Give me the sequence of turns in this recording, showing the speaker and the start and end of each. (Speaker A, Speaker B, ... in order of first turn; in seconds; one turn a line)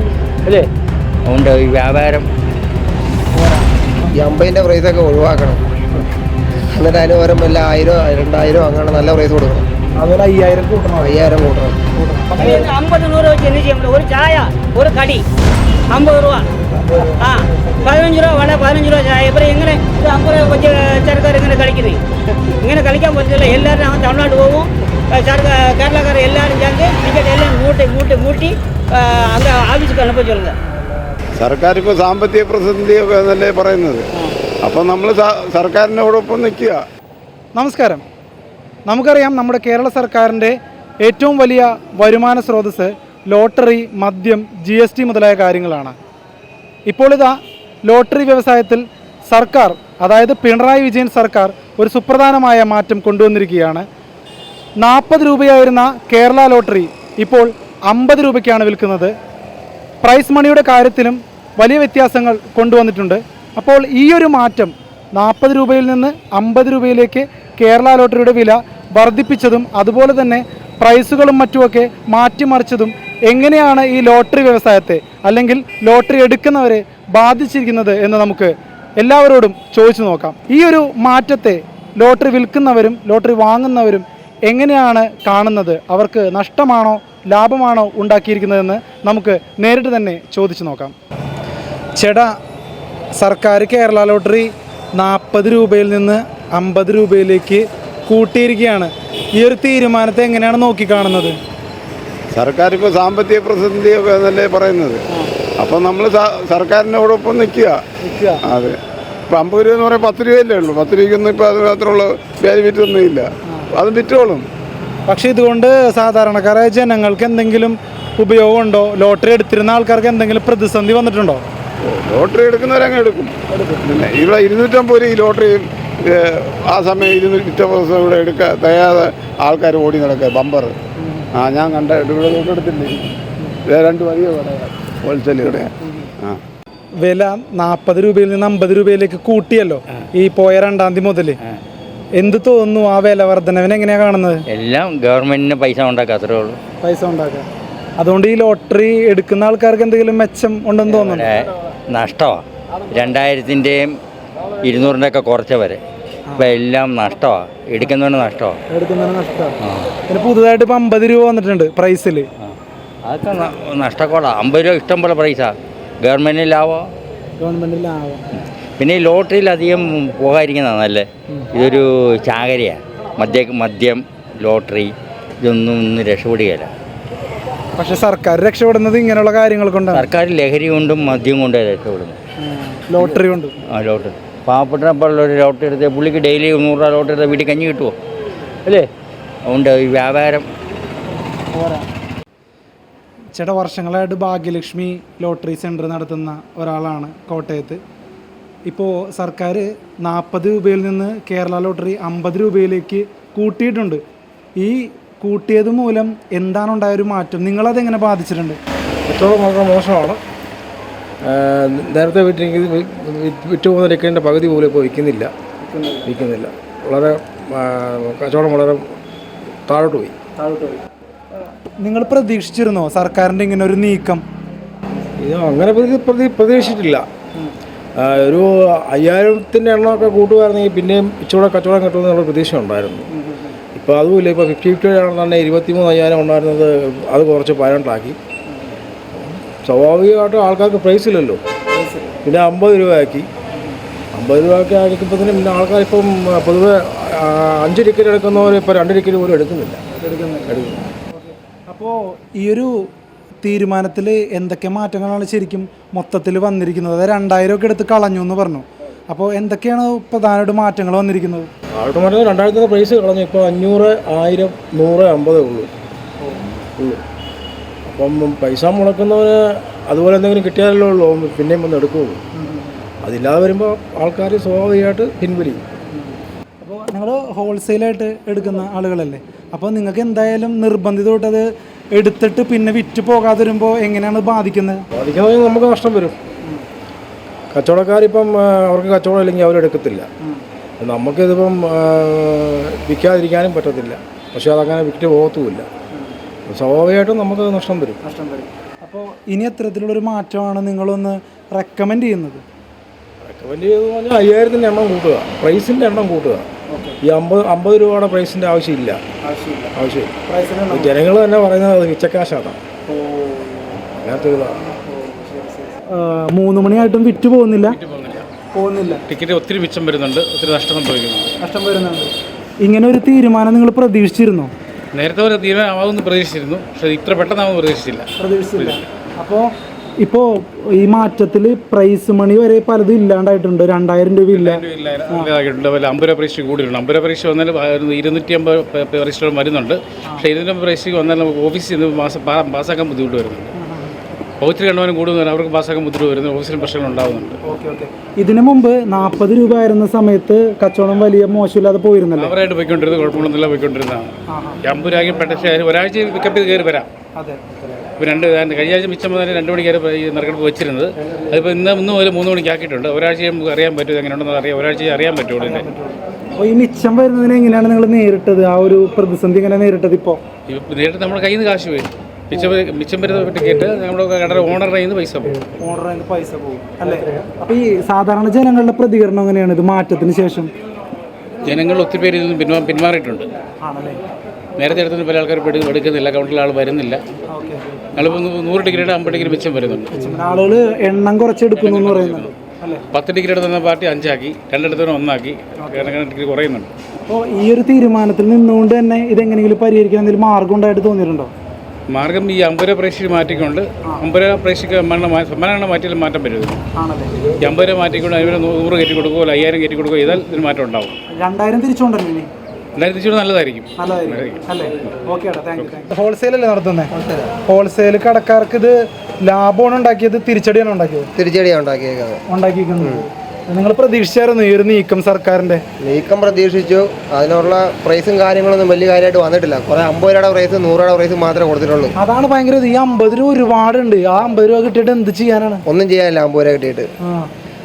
Speaker A: 1.3-2.2
Speaker B: 3.3-4.1
Speaker C: 4.1-5.6
Speaker C: 6.7-9.7
Speaker B: 9.9-12.7
Speaker C: 11.0-11.8
Speaker D: 12.3-15.2
Speaker D: 15.9-16.5
Speaker B: 16.7-18.0
Speaker D: 17.2-22.0
Speaker D: 22.6-30.5
Speaker B: 30.7-31.1
Speaker E: 31.4-34.1
Speaker E: 34.6-36.8
Speaker B: 37.5-38.0
Speaker B: 38.9-46.0
Speaker B: 46.9-53.9
Speaker B: 54.8-59.1
Speaker B: 60.0-90.9
Speaker B: 92.0-92.3
Speaker B: 93.1-101.4
Speaker E: 102.3-105.0
Speaker E: 105.6-107.8
Speaker B: 108.0-108.4
Speaker E: 108.4-108.8
Speaker E: 109.3-114.4
Speaker B: 115.1-121.4
Speaker E: 121.8-123.3
Speaker B: 123.5-123.8
Speaker E: 123.8-130.7
Speaker B: 131.0-131.3
Speaker E: 131.3-133.1
Speaker E: 133.7-135.7
Speaker B: 135.8-136.1
Speaker B: 137.0-141.4
Speaker B: 142.2-144.4
Speaker A: 144.5-146.6
Speaker B: 146.8-147.5
Speaker B: 148.0-151.3
Speaker A: 150.8-153.9
Speaker A: 154.6-155.8
Speaker B: 156.3-156.6
Speaker A: 156.4-158.6
Speaker B: 158.7-159.6
Speaker B: 160.1-162.3
Speaker A: 163.0-166.9
Speaker B: 167.4-168.2
Speaker A: 168.8-176.7
Speaker B: 177.8-180.1
Speaker A: 179.9-182.2
Speaker B: 182.4-183.5
Speaker A: 183.7-187.9
Speaker A: 189.5-190.4
Speaker B: 191.5-191.9
Speaker B: 193.3-197.8
Speaker B: 198.7-204.0
Speaker B: 204.6-208.6
Speaker F: 209.1-210.2
Speaker F: 211.2-215.3
Speaker B: 215.6-216.1
Speaker F: 216.0-218.9
Speaker F: 219.7-220.1
Speaker B: 220.4-220.8
Speaker B: 221.8-224.2
Speaker F: 225.2-227.1
Speaker F: 228.0-233.1
Speaker B: 233.1-233.5
Speaker F: 233.7-238.2
Speaker F: 239.1-241.4
Speaker B: 241.7-242.2
Speaker F: 242.2-243.3
Speaker F: 244.1-249.8
Speaker B: 250.0-250.6
Speaker F: 250.4-250.8
Speaker B: 251.1-252.9
Speaker B: 253.4-261.5
Speaker F: 261.7-265.7
Speaker F: 267.9-272.2
Speaker B: 272.3-272.8
Speaker F: 273.0-275.6
Speaker B: 275.9-284.8
Speaker F: 284.9-286.1
Speaker F: 287.5-290.1
Speaker F: 290.8-295.7
Speaker F: 296.5-298.0
Speaker B: 298.0-302.4
Speaker F: 303.2-306.5
Speaker B: 306.7-307.0
Speaker F: 307.0-309.0
Speaker B: 309.2-309.7
Speaker F: 309.7-310.1
Speaker B: 310.3-310.9
Speaker F: 310.7-312.6
Speaker B: 312.9-313.8
Speaker F: 313.9-314.6
Speaker B: 314.7-317.8
Speaker G: 317.6-318.3
Speaker B: 318.5-319.0
Speaker G: 319.1-321.3
Speaker B: 321.4-324.5
Speaker G: 324.9-328.8
Speaker B: 328.2-335.3
Speaker G: 334.3-343.5
Speaker B: 343.6-344.0
Speaker G: 344.4-347.4
Speaker B: 347.4-352.3
Speaker G: 352.2-356.9
Speaker B: 354.3-354.6
Speaker B: 357.1-357.6
Speaker G: 358.0-365.7
Speaker B: 365.4-370.2
Speaker G: 370.5-375.4
Speaker B: 375.3-380.5
Speaker G: 381.4-383.3
Speaker B: 383.6-384.0
Speaker G: 384.6-387.0
Speaker B: 387.3-387.6
Speaker G: 387.9-390.0
Speaker B: 389.9-392.8
Speaker G: 391.5-392.3
Speaker G: 392.9-396.7
Speaker B: 395.6-395.9
Speaker B: 397.1-401.3
Speaker G: 401.9-406.6
Speaker B: 406.8-407.3
Speaker G: 407.4-410.9
Speaker B: 411.1-412.3
Speaker G: 412.8-414.4
Speaker B: 413.8-421.1
Speaker C: 421.1-422.2
Speaker B: 422.3-425.6
Speaker C: 422.8-423.1
Speaker C: 425.8-431.9
Speaker B: 432.0-435.6
Speaker C: 435.7-436.9
Speaker B: 437.0-437.3